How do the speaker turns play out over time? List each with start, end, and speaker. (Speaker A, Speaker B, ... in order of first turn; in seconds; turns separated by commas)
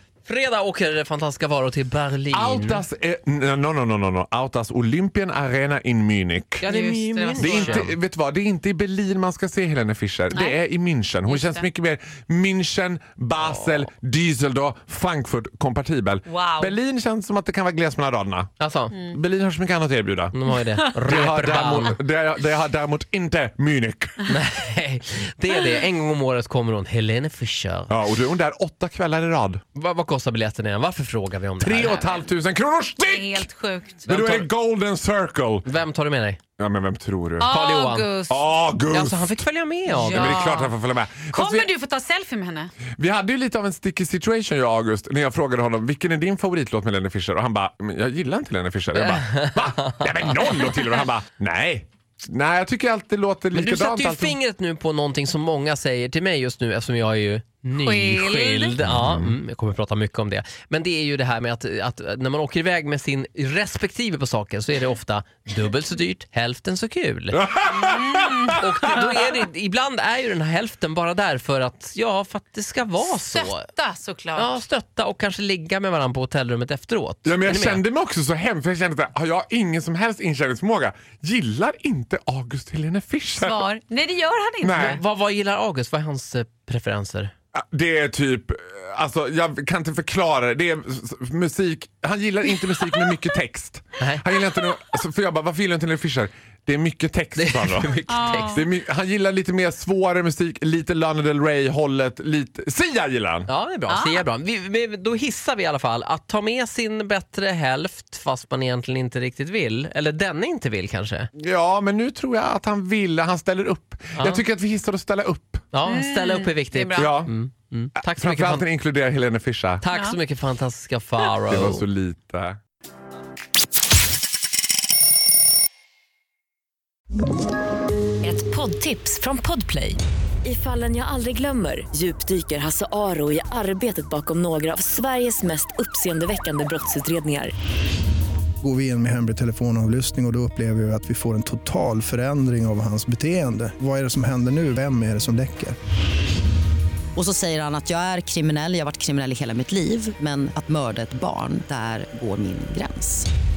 Speaker A: 0.2-2.8, Speaker B: 2.3-6.7, Speaker A: 6.6-7.9, Speaker C: 6.6-7.9, Speaker B: 7.4-24.2, Speaker C: 10.3-10.6, Speaker C: 11.2-11.7, Speaker A: 13.4-13.8, Speaker C: 16.2-16.8, Speaker A: 18.6-18.9, Speaker C: 18.9-19.2, Speaker A: 20.3-22.0, Speaker A: 24.2-27.9, Speaker B: 27.9-29.6, Speaker A: 29.7-32.2, Speaker B: 31.6-33.5, Speaker C: 33.0-34.1, Speaker B: 34.0-35.7, Speaker A: 34.1-34.5, Speaker A: 35.6-36.4, Speaker B: 36.6-37.5, Speaker C: 37.4-38.6, Speaker A: 37.4-38.1, Speaker B: 38.3-39.4, Speaker A: 38.9-40.5, Speaker C: 39.9-40.8, Speaker B: 40.0-41.7, Speaker C: 41.3-42.7, Speaker B: 43.0-54.4, Speaker A: 48.9-50.7, Speaker A: 53.5-67.4, Speaker C: 57.7-58.8, Speaker B: 58.8-59.4, Speaker B: 67.3-69.2, Speaker C: 67.7-68.9, Speaker A: 68.6-73.7, Speaker C: 73.0-74.5, Speaker A: 74.3-77.8, Speaker B: 77.2-83.7, Speaker C: 83.4-85.0, Speaker B: 84.6-85.0, Speaker A: 84.7-87.3, Speaker B: 87.5-103.5, Speaker A: 97.4-98.6, Speaker C: 98.1-98.7, Speaker A: 103.5-111.3, Speaker C: 103.9-104.2, Speaker B: 111.4-115.7, Speaker A: 114.2-114.4, Speaker A: 115.7-118.7, Speaker C: 115.8-117.2, Speaker B: 117.0-117.3, Speaker B: 118.0-119.8, Speaker A: 119.8-121.8, Speaker C: 119.9-120.2, Speaker B: 121.5-122.6, Speaker D: 128.2-137.5, Speaker E: 138.6-145.8, Speaker F: 147.2-153.3